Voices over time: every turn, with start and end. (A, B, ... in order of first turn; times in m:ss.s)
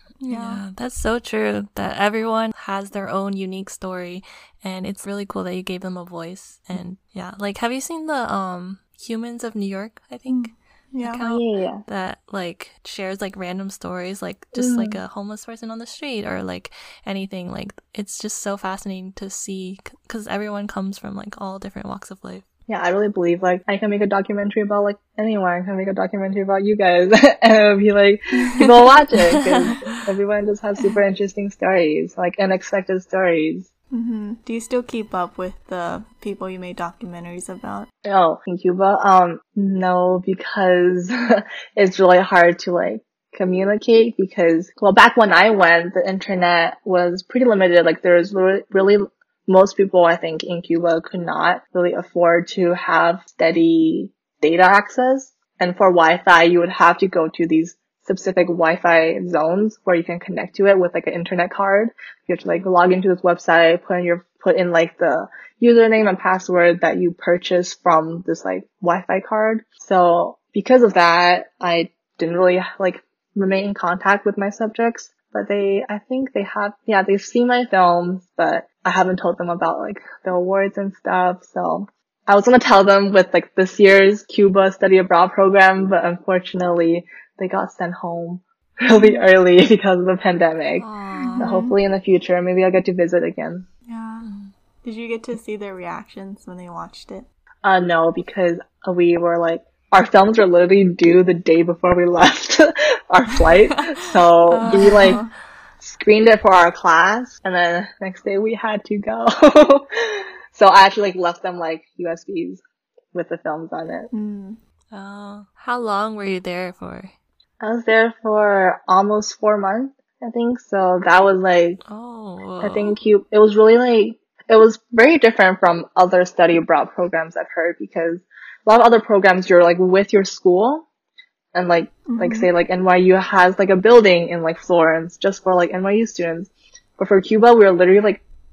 0:00.2-0:00.6 A
0:00.3-0:22.4 B
0:10.3-0:11.2 A
0:11.2-0:11.8 C
0:14.6-0:15.0 C
0:22.7-0:33.7 C
0:28.4-0:28.7 A
0:29.4-0:30.0 B
0:33.9-0:37.9 A
0:38.1-1:30.8 C
1:30.8-1:31.5 B
1:31.2-1:31.8 A
1:31.4-1:33.7 C
1:33.9-1:34.3 A
1:34.2-1:34.5 B
1:34.8-1:37.3 A
1:37.6-1:45.2 C
1:44.5-1:45.3 A
1:45.8-1:52.6 C
1:53.1-1:54.1 C
1:54.1-1:54.6 A
1:54.9-1:57.1 B
1:57.6-2:01.8 C
2:01.8-2:02.9 B
2:02.6-2:10.9 C
2:11.5-2:18.2 C
2:12.1-2:12.5 A